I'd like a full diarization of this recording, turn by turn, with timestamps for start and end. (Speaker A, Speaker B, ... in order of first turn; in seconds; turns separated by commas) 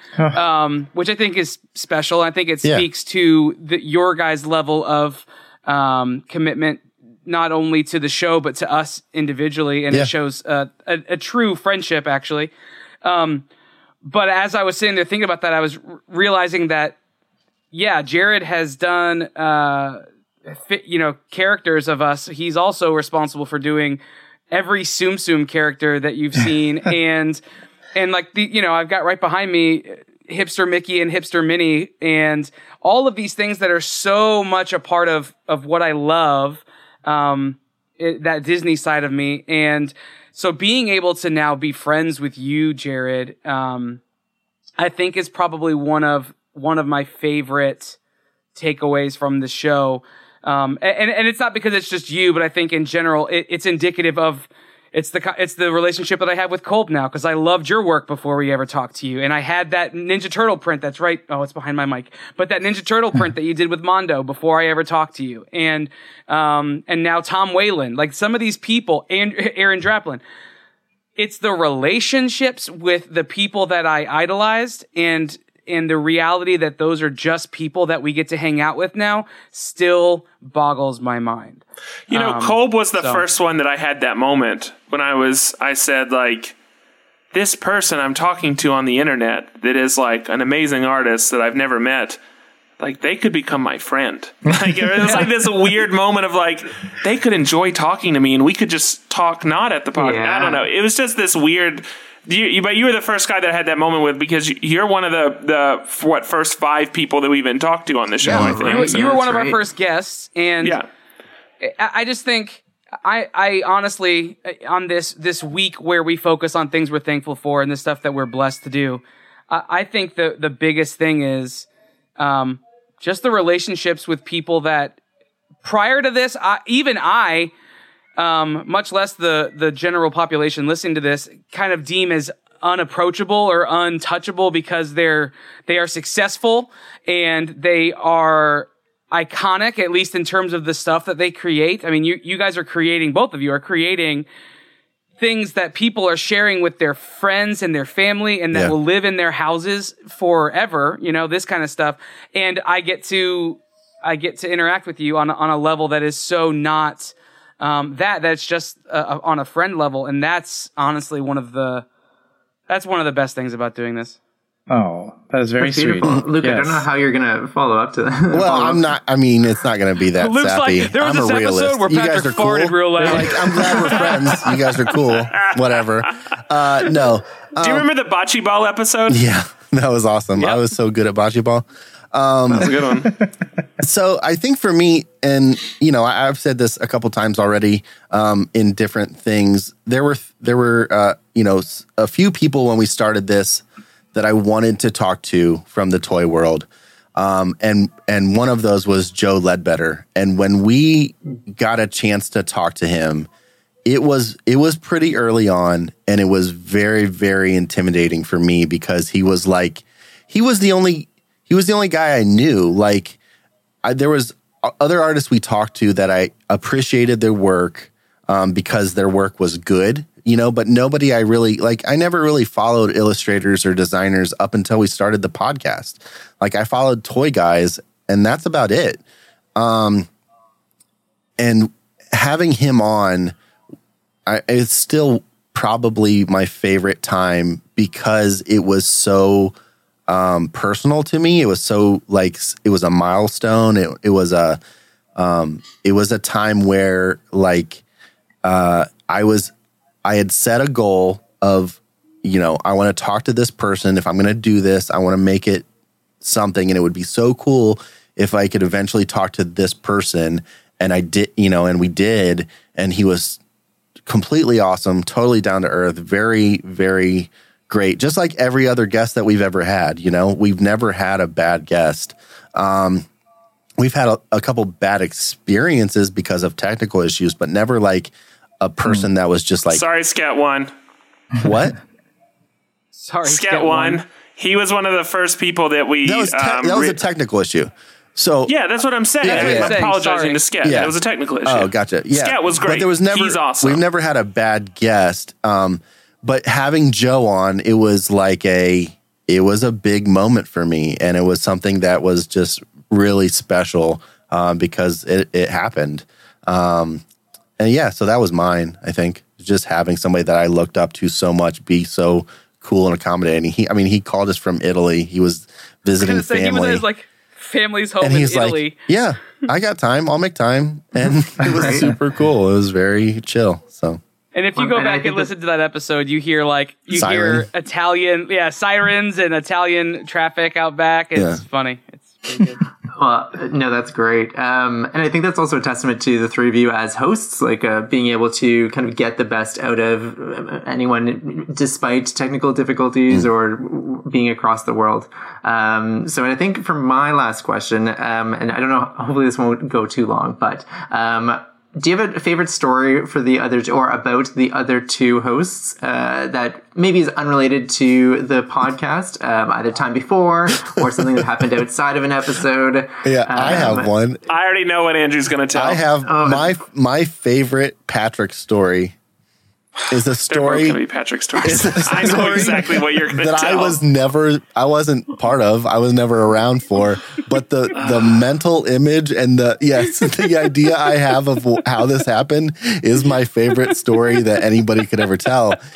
Speaker A: 0.3-12.5, Speaker A: 13.0-13.4, Speaker A: 14.0-17.0, Speaker A: 17.7-24.0, Speaker A: 24.5-27.4, Speaker A: 27.9-44.0, Speaker A: 44.8-48.0, Speaker A: 48.5-70.2, Speaker A: 71.2-83.2, Speaker B: 82.1-86.5, Speaker B: 87.3-92.2, Speaker B: 92.8-109.1, Speaker C: 94.5-95.2, Speaker D: 100.0-100.6, Speaker D: 108.2-109.6, Speaker A: 108.6-110.8, Speaker A: 111.6-121.7, Speaker A: 122.2-125.0, Speaker A: 125.6-127.5, Speaker A: 128.2-144.2, Speaker A: 145.2-161.8, Speaker A: 162.7-164.2, Speaker C: 164.7-166.8, Speaker D: 165.6-168.8, Speaker E: 168.3-177.9, Speaker A: 170.2-174.2, Speaker B: 175.1-175.6, Speaker B: 177.6-179.2, Speaker E: 179.1-182.8, Speaker A: 180.4-180.7, Speaker B: 182.5-183.1, Speaker E: 183.8-203.3, Speaker E: 203.8-213.2, Speaker E: 213.8-229.0, Speaker E: 229.6-230.1, Speaker E: 231.4-233.3, Speaker E: 234.2-239.5, Speaker E: 240.1-244.6, Speaker E: 245.2-247.8, Speaker E: 248.4-249.5, Speaker E: 250.0-255.6, Speaker E: 256.2-263.4, Speaker E: 264.1-273.1, Speaker E: 273.8-279.8, Speaker B: 279.7-280.7, Speaker E: 281.4-281.7, Speaker A: 282.9-284.0, Speaker B: 283.2-287.0, Speaker E: 286.0-288.5, Speaker B: 288.5-293.8, Speaker E: 289.2-289.8, Speaker A: 289.2-290.4, Speaker E: 290.6-290.9, Speaker E: 291.4-307.0, Speaker E: 307.6-316.8, Speaker A: 316.0-318.8, Speaker E: 318.0-324.0, Speaker D: 321.4-321.9, Speaker A: 324.3-332.6, Speaker D: 324.6-325.3, Speaker E: 326.9-327.5, Speaker E: 331.1-331.4, Speaker D: 332.9-363.9, Speaker E: 363.0-364.2, Speaker B: 364.3-365.8, Speaker E: 365.5-368.9, Speaker D: 366.0-366.6, Speaker E: 369.9-370.8, Speaker B: 370.3-373.8, Speaker E: 371.4-385.6